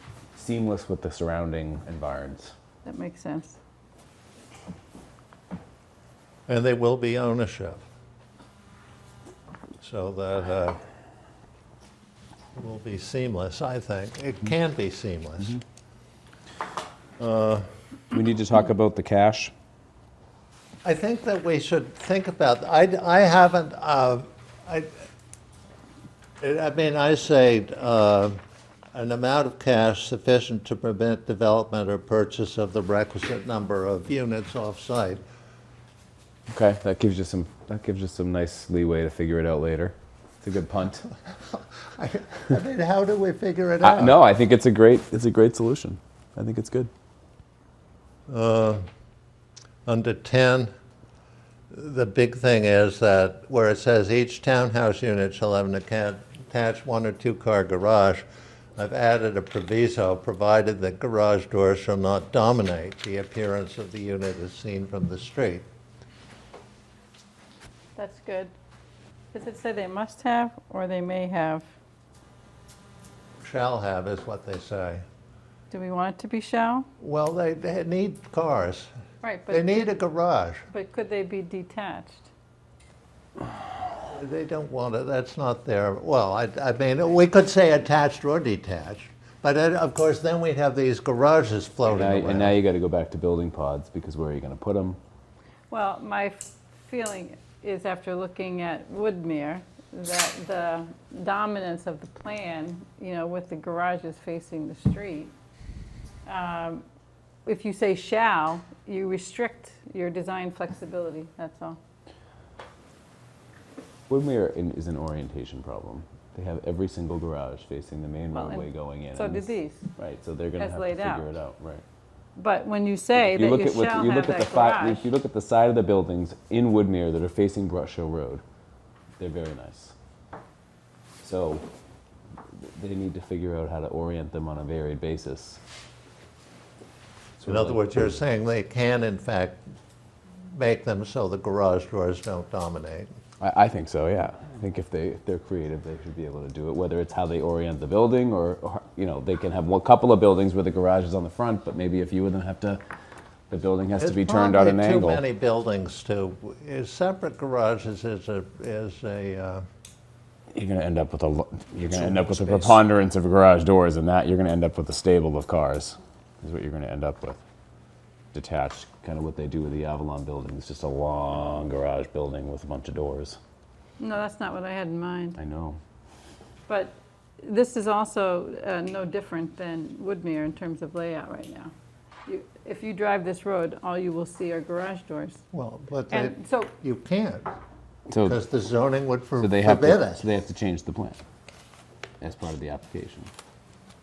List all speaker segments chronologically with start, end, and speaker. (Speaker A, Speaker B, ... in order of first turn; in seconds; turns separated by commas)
Speaker A: 0.3-2.5, Speaker B: 2.8-3.6, Speaker C: 6.5-7.8, Speaker C: 9.8-10.8, Speaker C: 12.5-15.6, Speaker C: 17.2-17.6, Speaker A: 18.1-19.5, Speaker C: 20.8-24.9, Speaker C: 26.4-28.4, Speaker C: 28.9-35.2, Speaker A: 36.5-41.0, Speaker C: 41.3-44.2, Speaker A: 43.8-46.9, Speaker C: 48.3-48.8, Speaker C: 49.9-50.7, Speaker C: 51.7-58.2, Speaker C: 58.8-65.6, Speaker B: 68.0-68.5, Speaker B: 69.3-71.7, Speaker C: 73.4-75.0, Speaker B: 75.7-76.8, Speaker C: 77.0-78.9, Speaker B: 79.2-79.9, Speaker C: 79.5-80.6, Speaker B: 80.7-82.3, Speaker C: 84.1-92.5, Speaker A: 91.9-95.0, Speaker B: 95.7-105.3, Speaker B: 106.2-106.8, Speaker B: 107.4-111.8, Speaker A: 114.1-121.8, Speaker B: 118.3-119.8, Speaker B: 120.6-121.3, Speaker B: 122.3-125.1, Speaker A: 123.2-128.4, Speaker A: 129.2-129.9, Speaker A: 131.2-131.7, Speaker A: 132.6-135.6, Speaker A: 137.4-138.2, Speaker C: 137.4-139.6, Speaker C: 140.5-143.1, Speaker A: 143.4-152.8, Speaker A: 153.5-155.2, Speaker C: 154.0-159.6, Speaker A: 160.5-167.4, Speaker C: 161.8-162.8, Speaker A: 168.3-173.4, Speaker B: 174.0-175.4, Speaker A: 175.4-175.8, Speaker B: 176.7-181.7, Speaker B: 182.2-185.4, Speaker C: 185.5-187.5, Speaker B: 186.1-186.7, Speaker A: 188.1-188.4, Speaker C: 188.2-190.3, Speaker A: 189.4-191.2, Speaker A: 192.2-193.3